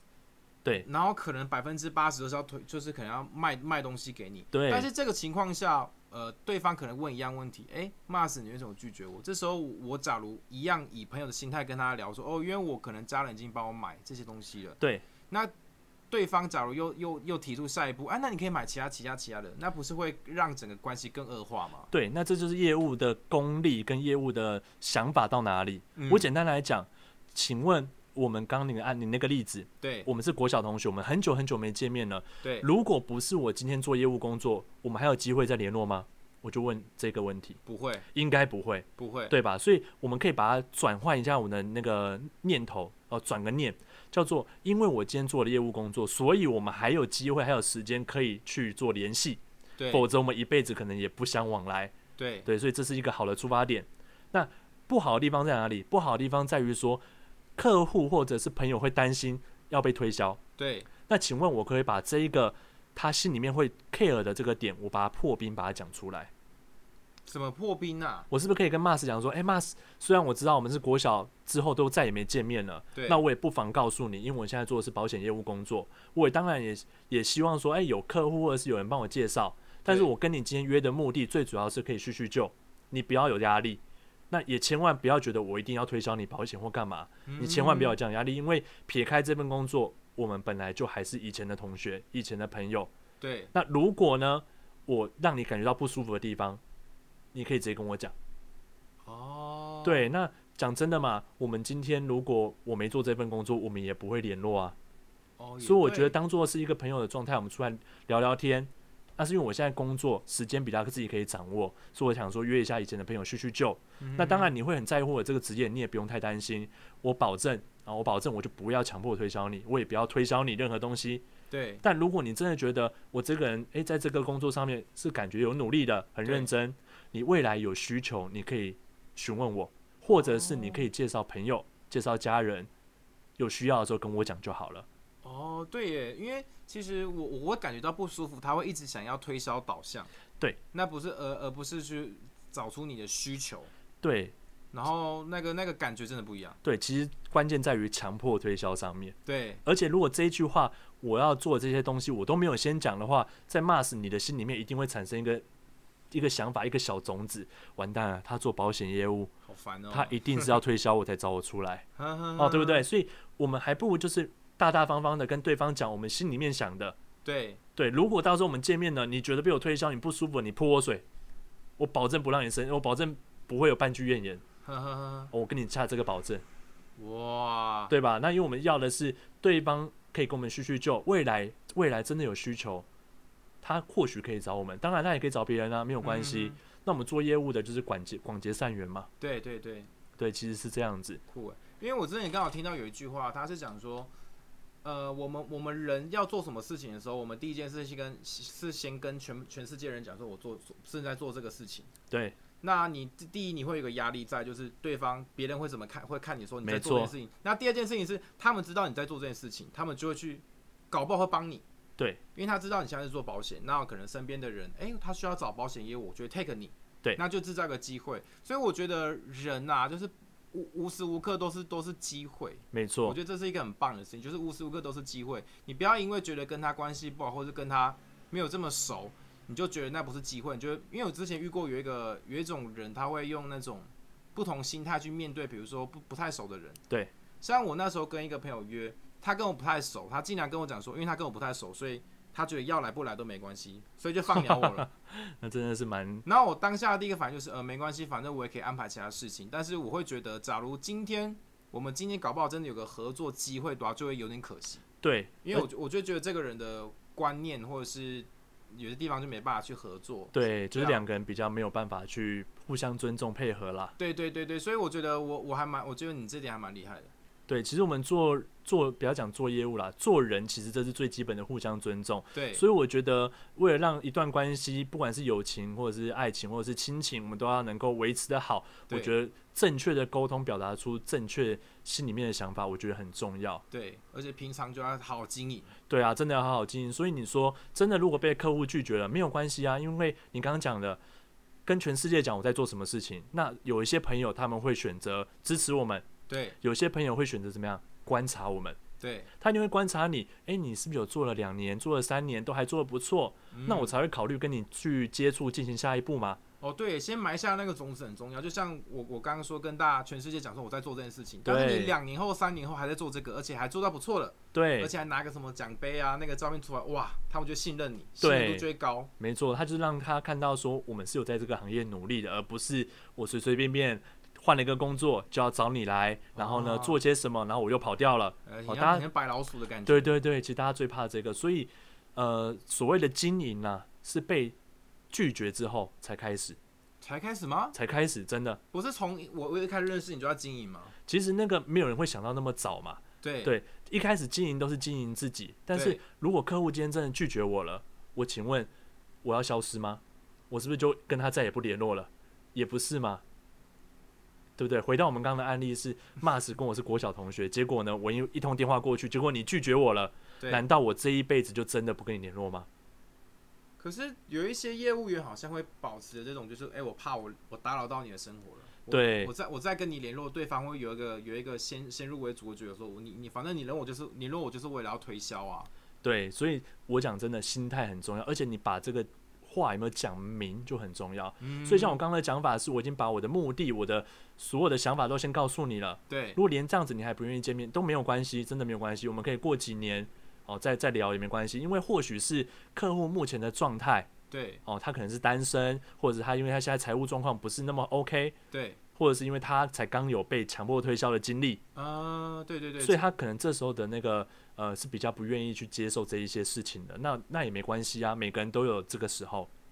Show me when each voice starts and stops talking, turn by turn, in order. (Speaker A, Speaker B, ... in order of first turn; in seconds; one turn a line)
Speaker A: 0.8-15.5
Speaker B: 4.5-4.9
Speaker A: 16.1-21.9
Speaker B: 21.9-37.6
Speaker A: 26.0-26.3
Speaker A: 29.8-30.1
Speaker A: 32.4-32.7
Speaker A: 37.6-38.1
Speaker B: 38.1-51.9
Speaker A: 39.0-39.4
Speaker A: 49.8-50.1
Speaker A: 52.2-52.5
Speaker B: 52.5-57.0
Speaker B: 57.6-60.4
Speaker A: 60.6-60.9
Speaker B: 61.1-66.3
Speaker A: 67.3-68.3
Speaker B: 68.3-92.9
Speaker A: 73.0-73.2
Speaker A: 79.9-80.1
Speaker A: 87.3-88.0
Speaker A: 93.2-93.5
Speaker B: 93.5-96.6
Speaker B: 97.3-98.2
Speaker A: 99.0-100.1
Speaker B: 99.8-104.8
Speaker A: 105.4-106.2
Speaker B: 105.6-121.2
Speaker A: 114.0-114.5
Speaker A: 121.5-121.8
Speaker B: 121.8-132.7
Speaker A: 126.2-126.5
Speaker A: 130.1-130.9
Speaker B: 133.4-134.9
Speaker A: 135.2-140.1
Speaker A: 140.7-143.7
Speaker B: 144.0-144.3
Speaker A: 144.7-146.6
Speaker B: 146.6-155.4
Speaker A: 149.2-149.6
Speaker B: 156.1-159.3
Speaker A: 159.5-160.6
Speaker B: 159.9-161.9
Speaker A: 162.0-162.9
Speaker B: 162.4-167.0
Speaker A: 167.2-167.6
Speaker B: 167.8-171.0
Speaker B: 171.8-174.4
Speaker A: 174.7-175.3
Speaker B: 175.3-176.4
Speaker A: 177.0-177.9
Speaker B: 177.9-182.9
Speaker B: 183.6-189.1
Speaker A: 186.0-186.6
Speaker A: 189.2-189.9
Speaker B: 190.2-191.2
Speaker A: 191.3-194.1
Speaker A: 194.8-201.9
Speaker B: 202.1-202.4
Speaker A: 202.6-211.6
Speaker B: 206.6-207.1
Speaker A: 212.3-236.8
Speaker B: 222.7-223.2
Speaker A: 237.4-244.9
Speaker B: 244.5-246.2
Speaker A: 246.2-254.8
Speaker B: 255.0-255.7
Speaker A: 255.4-261.0
Speaker B: 260.3-263.9
Speaker A: 264.0-267.1
Speaker B: 267.5-283.6
Speaker A: 272.3-272.6
Speaker A: 283.7-285.7
Speaker B: 285.9-291.0
Speaker B: 291.7-296.1
Speaker A: 296.3-296.6
Speaker B: 296.6-298.8
Speaker A: 299.0-299.3
Speaker B: 299.4-306.4
Speaker A: 303.5-303.9
Speaker A: 306.6-319.1
Speaker B: 311.4-311.9
Speaker B: 314.5-314.9
Speaker B: 318.2-318.7
Speaker B: 319.2-329.1
Speaker A: 326.3-327.0
Speaker A: 328.5-330.2
Speaker B: 329.9-334.6
Speaker B: 335.1-336.6
Speaker A: 337.0-337.8
Speaker B: 337.7-338.6
Speaker A: 338.7-340.9
Speaker B: 341.1-348.7
Speaker A: 343.2-343.5
Speaker A: 345.7-346.0
Speaker B: 349.2-353.2
Speaker B: 354.6-362.7
Speaker A: 360.4-360.6
Speaker A: 363.8-375.7
Speaker B: 368.9-369.3
Speaker B: 376.0-394.1
Speaker A: 381.4-382.0
Speaker A: 386.1-386.4
Speaker A: 394.3-394.6
Speaker B: 394.7-398.4
Speaker A: 398.5-398.8
Speaker B: 399.0-401.6
Speaker A: 401.8-403.0
Speaker B: 402.8-409.5